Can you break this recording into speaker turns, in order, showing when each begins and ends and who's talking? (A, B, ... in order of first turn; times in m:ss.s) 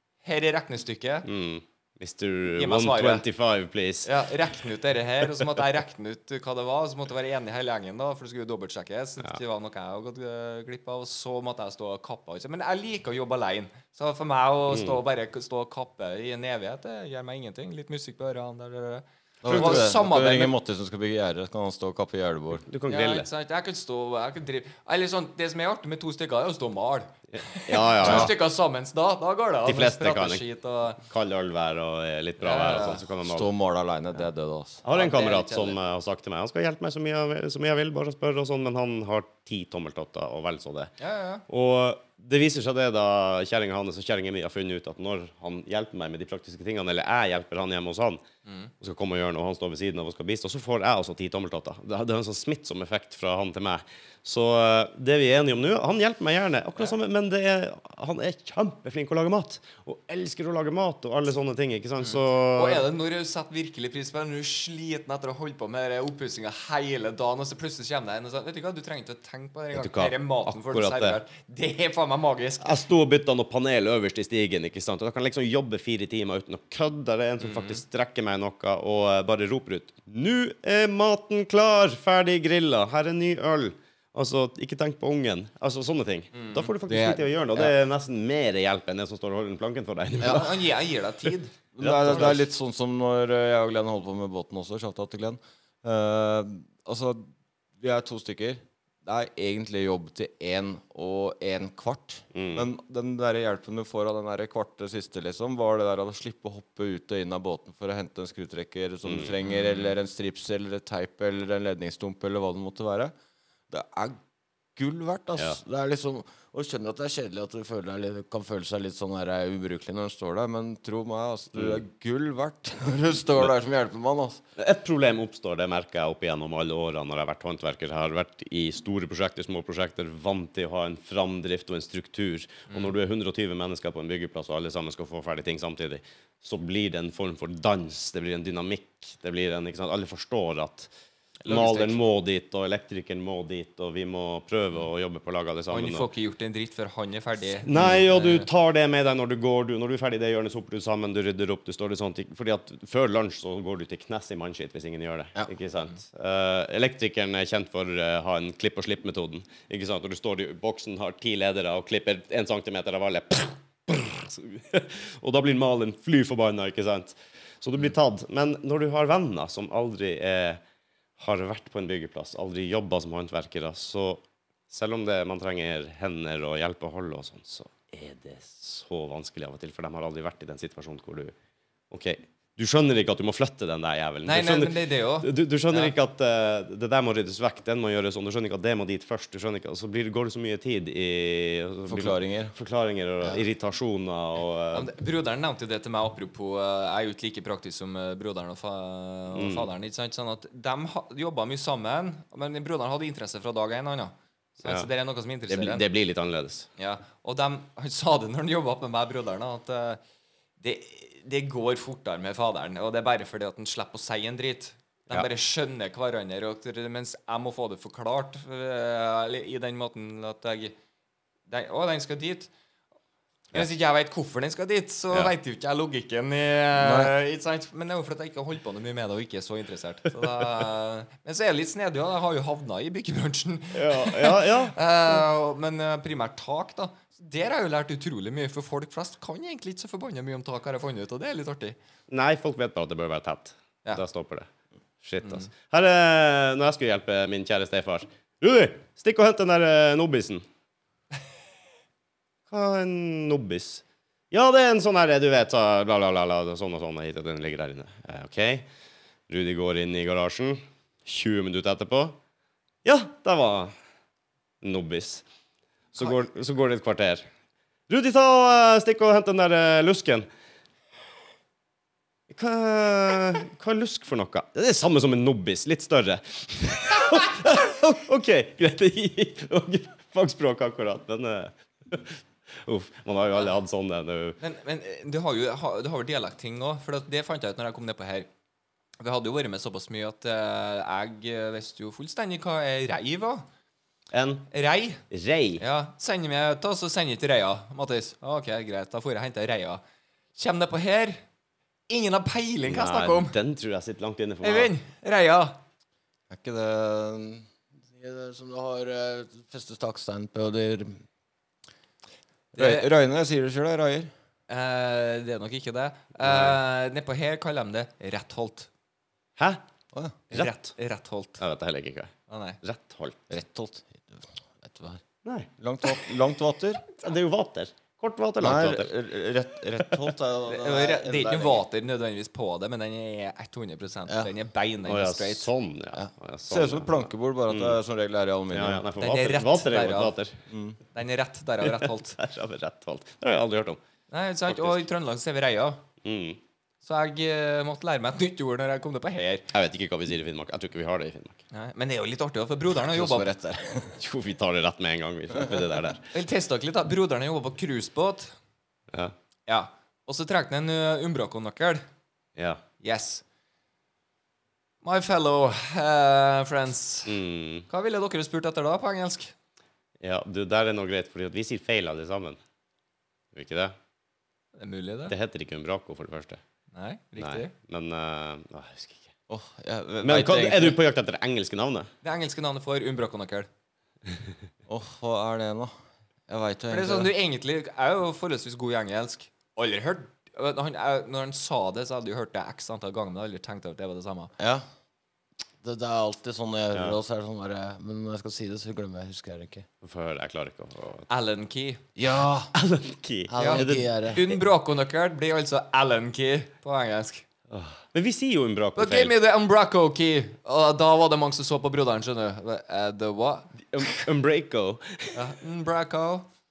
0:00.2-0:01.3 A
0:01.3-0:04.1 B
0:02.5-0:03.2 A
0:04.0-0:20.5 A
0:14.7-0:15.0 B
0:19.4-0:22.7 C
0:19.4-0:19.9 B
0:22.7-0:23.3 B
0:22.9-0:31.0 A
0:27.3-0:28.3 B
0:28.0-0:28.3 C
0:29.6-0:30.4 B
0:31.0-0:33.5 B
0:32.4-0:33.0 A
0:33.2-0:34.8 C
0:34.8-0:40.9 B
0:34.9-0:35.8 A
0:41.0-0:41.4 A
0:41.5-0:48.2 B
0:48.4-0:48.7 A
0:48.8-1:02.9 B
1:02.0-1:12.8 A
1:09.7-1:11.2 B
1:12.6-1:30.7 B
1:17.4-1:17.8 A
1:26.3-1:26.7 A
1:26.9-1:27.7 C
1:30.2-1:31.6 A
1:31.8-1:53.1 C
1:31.8-1:32.4 B
1:42.3-1:42.7 B
1:49.1-1:49.7 B
1:53.7-1:54.2 C
1:54.8-2:04.4 C
2:01.6-2:01.8 B
2:04.6-2:20.9 B
2:21.4-2:22.0 A
2:21.5-2:26.1 B
2:25.7-2:28.5 A
2:27.6-2:50.6 B
2:51.2-3:01.3 B
3:01.9-3:14.9 B
3:04.2-3:06.0 A
3:11.9-3:12.5 C
3:14.7-3:25.8 A
3:19.3-3:19.7 B
3:25.5-3:26.7 B
3:26.8-3:30.0 A
3:30.6-3:40.7 A
3:41.5-3:42.5 A
3:43.5-4:01.8 A
3:46.8-3:47.1 C
3:53.7-3:54.8 B
4:02.1-4:04.5 B
4:05.0-4:10.4 B
4:12.5-4:18.7 B
4:19.3-4:22.2 B
4:22.8-4:23.7 B
4:24.6-4:25.2 B
4:25.9-4:27.2 B
4:27.9-4:30.3 B
4:32.3-4:44.4 B
4:44.4-4:48.3 A
4:49.0-4:53.5 A
4:54.1-4:54.5 B
4:54.5-4:55.0 A
4:55.1-4:55.6 B
4:55.6-4:59.8 A
5:00.4-5:01.2 A
5:01.9-5:03.4 A
5:02.7-5:04.7 B
5:04.4-5:05.6 A
5:06.3-5:11.0 C
5:12.5-5:12.9 A
5:12.6-5:14.1 C
5:14.5-5:18.7 A
5:16.2-5:16.6 B
5:19.4-5:19.6 B
5:20.3-5:21.4 A
5:21.4-5:23.3 B
5:22.3-5:22.6 A
5:23.3-5:25.0 C
5:25.6-5:26.8 C
5:26.9-5:28.9 B
5:28.4-5:31.6 C
5:30.5-5:35.5 A
5:34.9-5:37.8 B
5:36.0-5:38.8 C
5:38.5-5:40.4 B
5:39.0-5:40.2 A
5:40.5-5:40.8 C
5:40.9-5:42.2 A
5:41.6-5:43.8 B
5:44.1-5:45.8 A
5:44.5-5:44.8 B
5:46.0-5:46.4 B
5:46.8-5:49.5 A
5:49.5-5:51.4 B
5:51.5-5:53.3 A
5:52.8-5:54.0 C
5:54.0-5:56.0 B
5:56.1-5:58.4 A
5:59.5-6:01.8 A
6:02.4-6:02.6 B
6:02.8-6:03.2 A
6:04.8-6:07.2 A
6:07.1-6:07.7 B
6:07.7-6:09.3 A
6:10.0-6:12.4 B
6:13.3-6:13.7 B
6:14.6-6:15.1 A
6:15.1-6:16.4 B
6:16.7-6:17.5 A
6:17.2-6:19.1 B
6:19.3-6:20.8 C
6:20.0-6:21.9 B
6:22.0-6:23.5 A
6:24.7-6:25.7 C
6:26.3-6:27.1 C
6:26.7-6:34.3 A
6:34.4-6:34.6 C
6:35.6-6:39.7 C
6:36.7-6:37.0 B
6:39.8-6:41.1 B
6:41.1-6:41.8 A
6:42.0-6:42.5 C
6:42.6-6:44.4 B
6:43.3-6:44.3 C
6:43.4-6:47.2 A
6:47.5-6:49.1 B
6:48.8-6:54.0 A
6:53.7-6:55.2 B
6:55.2-6:56.3 A